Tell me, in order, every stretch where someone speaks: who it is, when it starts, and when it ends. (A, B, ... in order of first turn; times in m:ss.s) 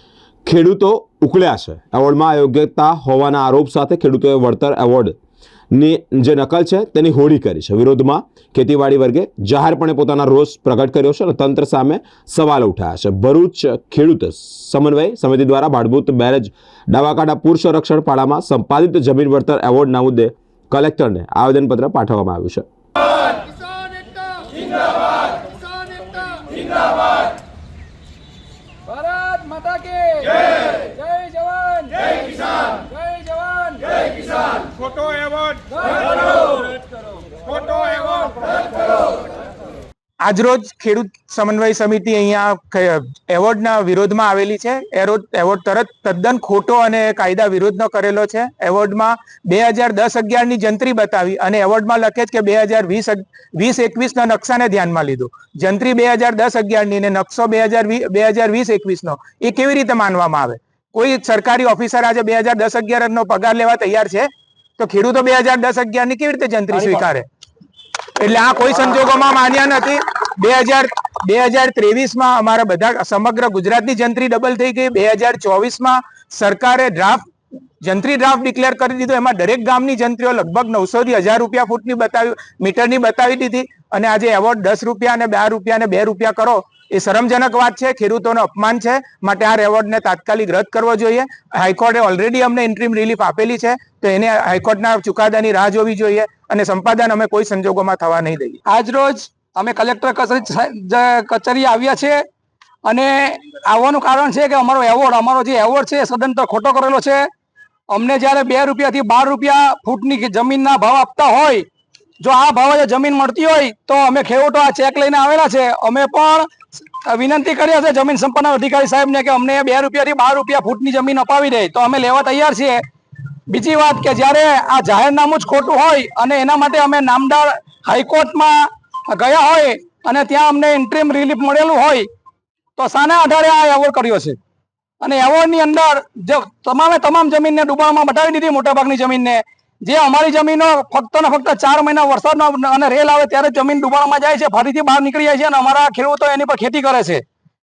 0:00.4-0:05.2 A
0:05.7-0:22.7 A
0:25.8-0:26.6 B
0:28.9-0:34.1 B
0:37.5-0:38.4 B
0:40.2-1:04.3 C
1:04.8-1:07.3 C
1:06.7-1:07.1 B
1:08.2-1:17.3 C
1:17.8-1:38.6 C
1:38.7-1:42.2 B
1:42.8-1:47.2 B
1:47.9-1:51.6 B
1:52.2-2:02.8 B
2:03.5-2:12.1 B
2:12.8-2:14.4 B
2:15.0-2:27.2 B